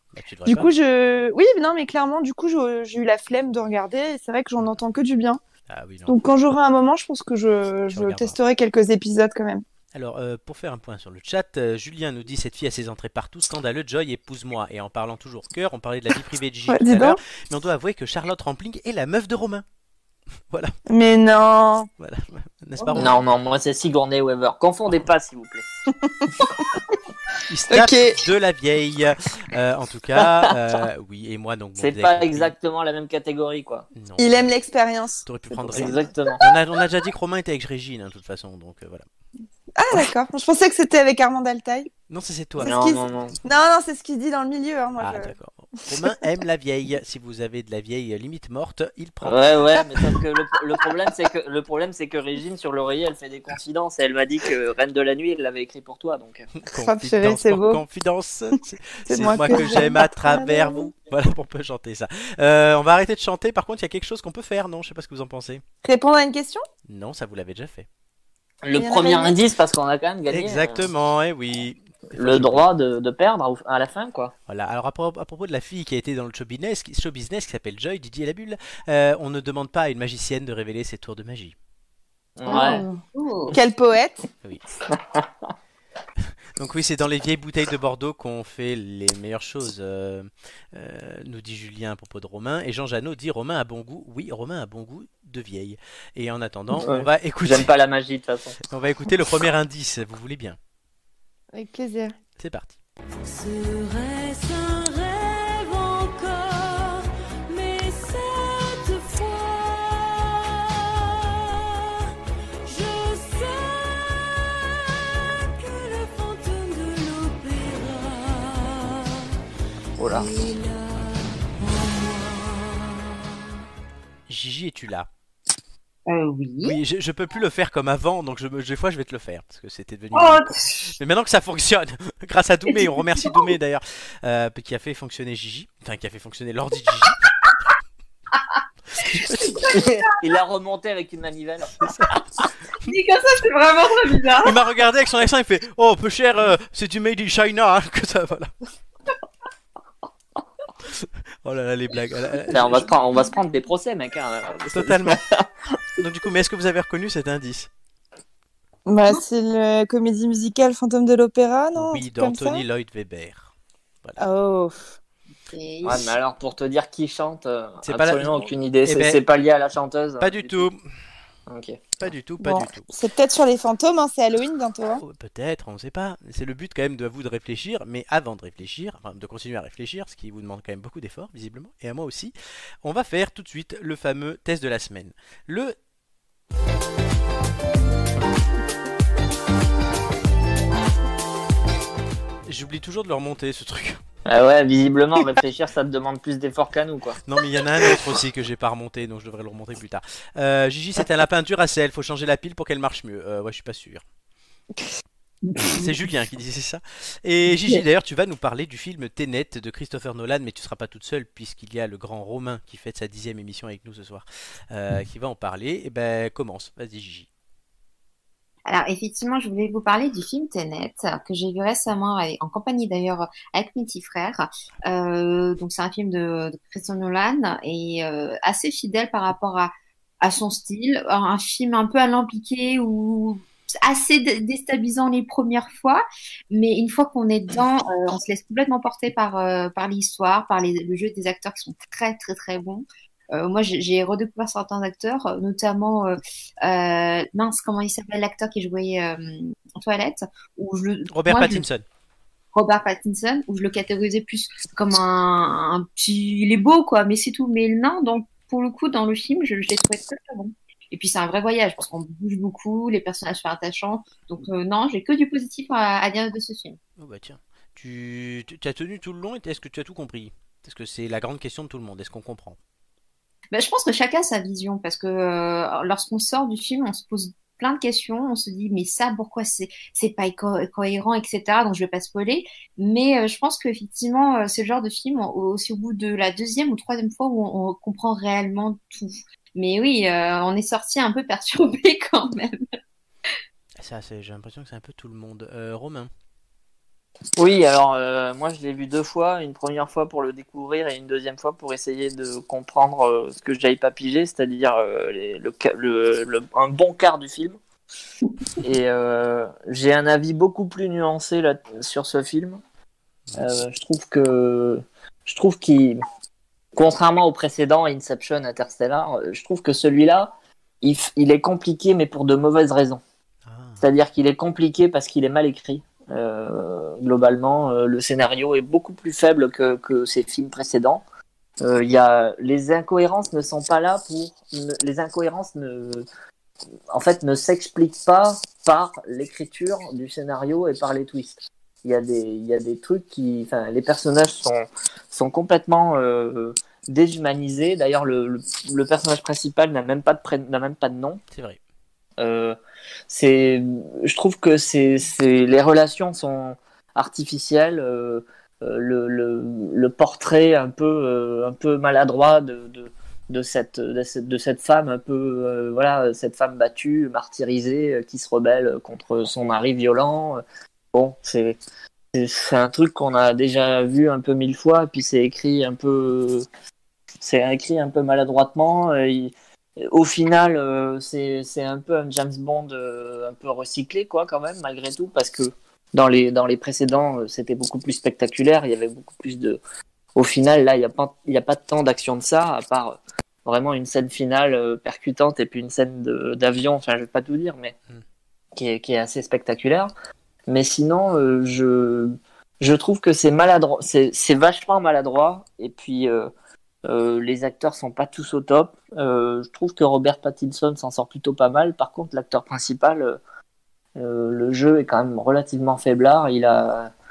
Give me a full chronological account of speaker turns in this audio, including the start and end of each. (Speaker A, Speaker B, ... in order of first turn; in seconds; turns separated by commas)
Speaker A: 0.1-0.7, Speaker B: 0.5-5.4, Speaker A: 5.7-6.1, Speaker B: 6.1-9.6, Speaker A: 7.9-8.4, Speaker A: 9.9-19.6, Speaker B: 16.7-17.2, Speaker A: 20.5-20.7, Speaker B: 20.9-21.9, Speaker A: 22.0-23.2, Speaker C: 22.9-25.6, Speaker A: 27.5-32.5, Speaker B: 27.7-28.2, Speaker C: 30.2-30.5, Speaker C: 31.8-33.9, Speaker A: 33.9-34.5, Speaker B: 34.2-35.9, Speaker A: 35.2-39.1, Speaker C: 35.7-36.4, Speaker B: 39.8-41.9, Speaker A: 42.1-42.8, Speaker B: 42.6-45.3, Speaker C: 42.6-43.3, Speaker A: 45.0-49.5, Speaker C: 49.2-56.5, Speaker A: 56.6-65.6, Speaker B: 56.8-57.8, Speaker B: 59.1-60.9, Speaker B: 65.8-66.6, Speaker A: 66.9-67.9, Speaker C: 68.6-70.8, Speaker B: 68.8-69.3, Speaker A: 70.3-72.7, Speaker C: 72.1-74.3, Speaker A: 74.5-81.5, Speaker C: 82.4-82.8, Speaker D: 82.5-83.5, Speaker B: 82.5-83.0, Speaker B: 83.5-84.2, Speaker C: 84.9-85.2, Speaker A: 86.2-97.7, Speaker C: 96.8-98.6, Speaker A: 98.7-100.6, Speaker B: 101.5-102.1, Speaker A: 102.4-102.8, Speaker E: 103.2-112.1, Speaker E: 112.7-119.4, Speaker C: 120.0-120.3, Speaker E: 120.0-123.3, Speaker A: 124.3-125.1, Speaker D: 126.0-126.8, Speaker A: 126.6-137.2, Speaker D: 130.1-130.9, Speaker D: 132.7-133.5, Speaker A: 138.9-139.7, Speaker D: 139.0-140.2, Speaker C: 139.7-141.9, Speaker A: 141.8-142.2, Speaker D: 142.8-144.6, Speaker A: 144.4-148.5, Speaker A: 150.9-152.9, Speaker C: 152.5-155.5, Speaker A: 154.7-155.2, Speaker A: 156.0-157.7, Speaker B: 158.9-162.6, Speaker A: 161.7-163.5, Speaker B: 164.2-164.9, Speaker D: 165.5-166.1, Speaker C: 165.8-170.7, Speaker A: 167.8-169.2, Speaker A: 170.2-170.8, Speaker C: 171.5-172.0, Speaker A: 172.0-172.8, Speaker B: 172.4-175.0, Speaker A: 175.0-185.8, Speaker A: 192.5-194.0, Speaker C: 194.3-197.2, Speaker A: 197.2-204.0, Speaker A: 205.7-217.3, Speaker D: 218.7-251.6, Speaker A: 251.1-251.8, Speaker D: 252.5-266.8, Speaker A: 267.0-272.6, Speaker D: 273.5-292.6, Speaker A: 293.8-296.1, Speaker C: 297.4-307.6, Speaker C: 308.6-312.6, Speaker A: 313.3-313.6, Speaker C: 313.4-316.0, Speaker C: 316.8-323.0, Speaker A: 323.4-323.8, Speaker C: 323.8-331.0, Speaker C: 331.6-336.1, Speaker C: 336.9-351.2, Speaker A: 351.3-351.6, Speaker C: 352.2-352.6, Speaker C: 353.1-370.4, Speaker C: 370.9-371.6, Speaker C: 372.1-376.5, Speaker C: 377.2-389.6, Speaker C: 390.1-397.8, Speaker C: 398.5-399.9, Speaker C: 400.5-406.3, Speaker C: 406.8-413.2, Speaker C: 413.9-416.9